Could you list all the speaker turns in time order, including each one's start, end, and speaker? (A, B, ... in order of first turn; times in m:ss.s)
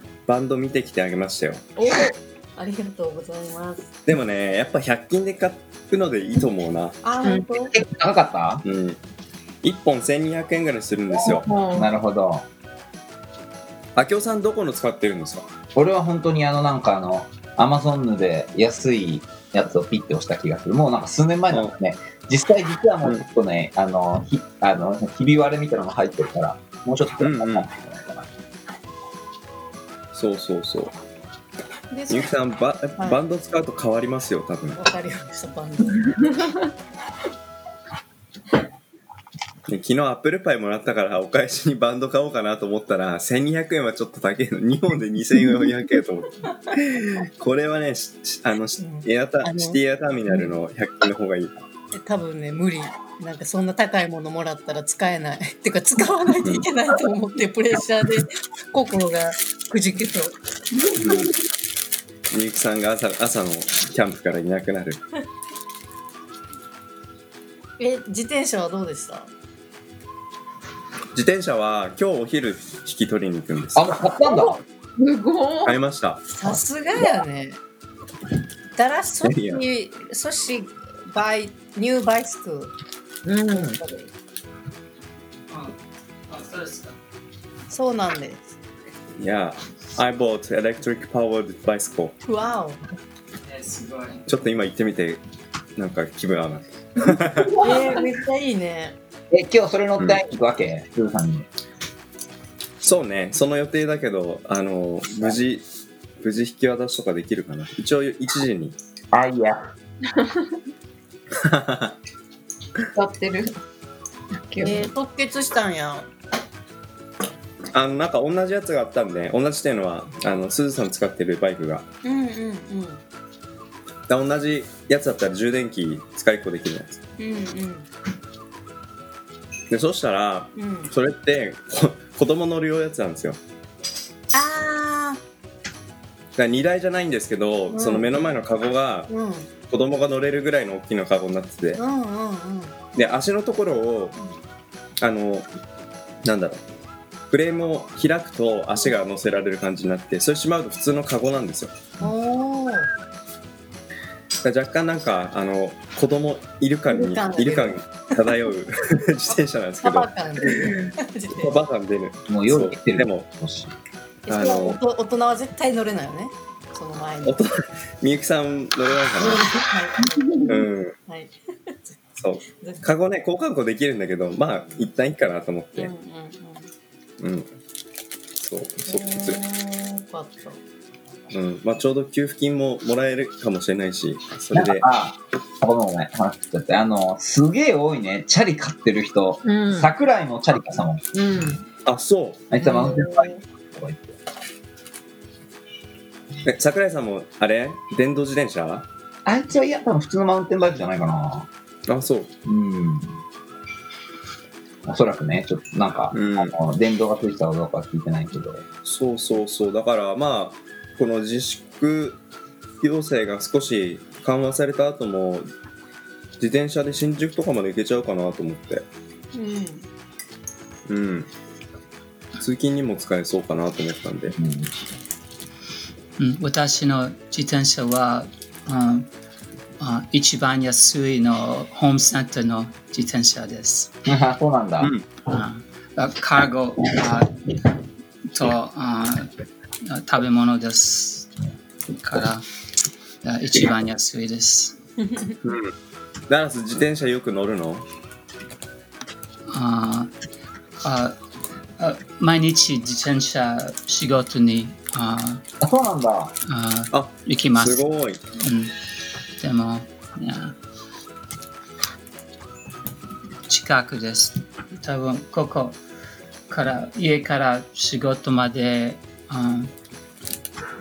0:00.3-0:01.7 A
0:01.8-0:03.9 B
0:04.1-0:07.0 A
0:07.0-0:07.8 B
0:07.2-0:07.5 C
0:07.7-0:08.6 D
0:08.6-0:09.0 A
0:09.6-0:11.5 A
0:11.2-0:11.9 C
0:11.6-0:12.5 D
0:14.0-0:15.5 A
0:15.7-0:28.3 D
0:27.2-0:27.7 A
0:30.1-0:31.0 A
0:31.9-0:32.3 B
0:32.1-0:34.8 A
0:34.8-0:36.5 B
0:39.7-0:51.5 A
0:48.8-0:49.8 B
0:51.9-1:00.4 B
1:01.0-1:01.3 A
1:02.3-1:05.0 A
1:07.8-1:09.3 B
1:11.1-1:14.0 A
1:13.8-1:14.6 D
1:14.2-1:15.8 C
1:15.6-1:16.2 A
1:16.3-1:17.6 B
1:18.8-1:22.7 B
1:19.2-1:19.6 A
1:23.2-1:23.8 C
1:23.5-1:24.1 B
1:25.5-1:25.8 E
1:26.3-1:27.0 E
1:27.7-1:28.6 B
1:29.2-1:32.2 A
1:32.2-1:32.8 B
1:33.4-1:34.2 E
1:34.3-1:35.2 A
1:35.8-1:37.6 A
1:37.6-1:39.0 B
1:39.3-1:41.5 D
1:42.8-1:45.7 A
1:46.2-1:48.8 A
1:49.1-1:49.7 D
1:50.1-1:50.6 C
1:51.4-1:52.0 A
1:52.9-1:53.6 C
1:54.5-1:54.9 C
1:54.6-1:56.1 B
1:57.7-2:01.9 A
2:02.0-2:03.0 B
2:04.1-2:07.0 A
2:07.2-2:07.9 B
2:09.7-2:13.4 A
2:10.6-2:10.9 B
2:14.3-2:15.2 B
2:16.4-2:19.1 A
2:17.7-2:18.1 B
2:19.1-2:19.5 B
2:19.7-2:21.8 A
2:21.7-2:22.8 B
2:22.9-2:24.2 A
2:25.0-2:25.5 A
2:26.2-2:26.6 A
2:27.3-2:31.8 A
2:32.0-2:32.9 B
2:34.4-2:40.1 A
2:36.9-2:37.8 B
2:39.8-2:41.6 B
2:41.3-2:43.3 A
2:42.3-2:43.7 D
2:44.3-2:47.4 B
2:44.3-2:44.8 A
2:47.2-2:49.5 A
2:49.2-2:51.8 B
2:50.3-2:50.6 C
2:50.5-2:51.0 A
2:52.2-2:55.9 A
2:55.8-2:56.7 B
2:57.2-2:57.5 A
2:58.4-2:59.4 A
2:58.9-3:00.6 B
3:01.3-3:04.8 A
3:04.5-3:11.0 D
3:09.4-3:09.9 C
3:11.1-3:11.6 C
3:11.8-3:12.5 A
3:12.5-3:14.2 D
3:12.6-3:13.4 B
3:16.4-3:18.9 A
3:19.3-3:21.5 D
3:21.9-3:22.3 A
3:22.4-3:23.2 D
3:24.8-3:28.6 D
3:26.1-3:26.6 A
3:28.8-3:32.2 A
3:32.8-3:35.5 A
3:36.4-3:38.9 A
3:39.3-3:39.9 B
3:40.9-3:41.3 A
3:42.4-3:44.4 A
3:44.4-3:44.7 D
3:46.2-3:49.1 E
3:49.8-3:53.9 E
3:54.1-3:54.9 D
3:55.3-3:57.6 E
3:58.3-3:59.3 E
3:59.8-4:01.3 E
4:02.0-4:02.5 E
4:03.2-4:04.8 E
4:05.0-4:05.4 B
4:05.4-4:05.7 A
4:06.3-4:07.9 A
4:09.5-4:10.1 E
4:10.8-4:11.2 E
4:11.8-4:15.4 E
4:15.6-4:16.4 D
4:16.5-4:17.8 E
4:16.9-4:18.2 A
4:18.4-4:18.8 E
4:19.4-4:20.6 E
4:23.5-4:25.8 E
4:26.5-4:29.7 E